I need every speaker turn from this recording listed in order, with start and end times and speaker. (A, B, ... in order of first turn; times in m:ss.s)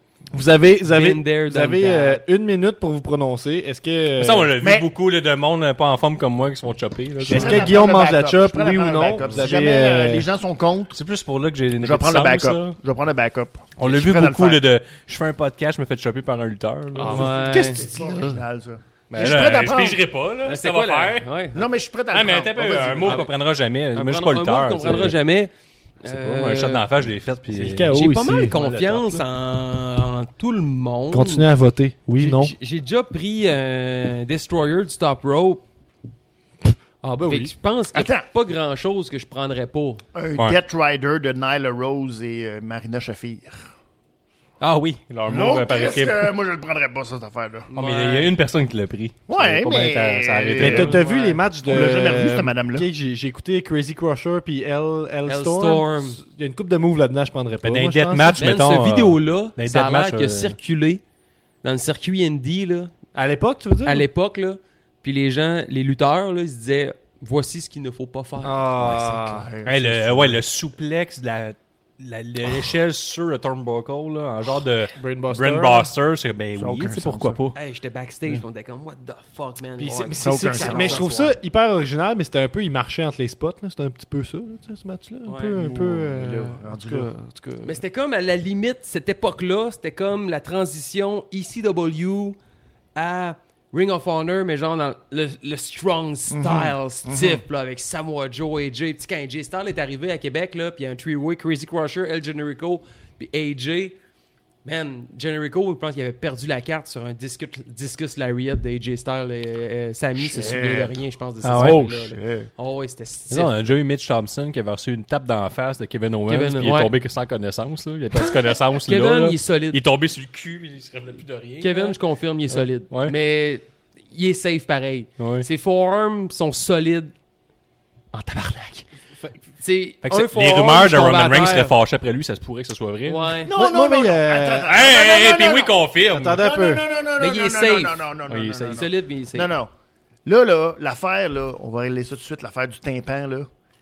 0:00.3-0:04.5 A
0:00.9-0:02.2 B
0:04.2-0:07.8 C
0:04.6-0:04.9 D
0:07.2-0:11.0 D
0:07.3-0:10.3 A
0:09.2-0:09.5 C
0:10.9-0:12.8 C
0:11.8-0:14.6 D
0:13.8-0:18.0 C
0:17.0-0:17.7 A
0:17.0-0:17.9 B
0:17.1-0:20.0 D
0:19.1-0:21.3 C
0:20.4-0:21.6 B
0:21.5-0:23.3 D
0:22.1-0:25.2 C
0:23.9-0:26.9 B
0:26.0-0:29.2 C
0:27.5-0:28.5 A
0:27.9-0:31.5 B
0:31.1-0:32.5 A
0:32.2-0:35.6 B
0:37.0-0:37.5 A
0:37.2-0:40.0 B
0:37.9-0:38.3 D
0:40.1-0:43.7 D
0:44.6-0:46.3 C
0:45.2-0:47.7 D
0:47.7-0:51.0 C
0:47.7-0:48.3 B
0:49.3-0:52.9 D
0:50.6-0:58.4 A
0:50.7-0:51.4 B
0:55.2-0:56.2 B
0:57.6-1:00.6 C
0:58.4-1:01.0 B
1:01.6-1:02.9 B
1:03.1-1:04.0 A
1:03.8-1:09.2 B
1:08.4-1:09.5 A
1:08.9-1:10.4 D
1:09.6-1:17.6 C
1:15.0-1:15.9 A
1:16.6-1:17.4 D
1:17.5-1:21.3 B
1:19.8-1:27.8 A
1:20.2-1:21.1 D
1:25.2-1:25.6 B
1:25.5-1:27.1 D
1:27.6-1:32.4 B
1:32.9-1:44.0 B
1:36.3-1:37.4 D
1:44.6-1:53.6 B
1:50.2-1:51.0 D
1:51.4-1:52.1 C
1:51.6-1:52.5 D
1:53.3-2:02.0 C
1:56.3-1:56.9 B
1:58.2-1:59.8 B
2:01.6-2:07.1 B
2:05.2-2:05.4 C
2:08.1-2:08.8 B
2:09.6-2:11.7 B
2:10.0-2:13.3 C
2:13.0-2:13.5 B
2:13.4-2:19.7 D
2:13.5-2:14.7 A
2:14.7-2:16.4 C
2:16.1-2:16.8 A
2:17.2-2:18.0 B
2:18.3-2:18.9 C
2:18.7-2:19.5 B
2:20.2-2:23.5 D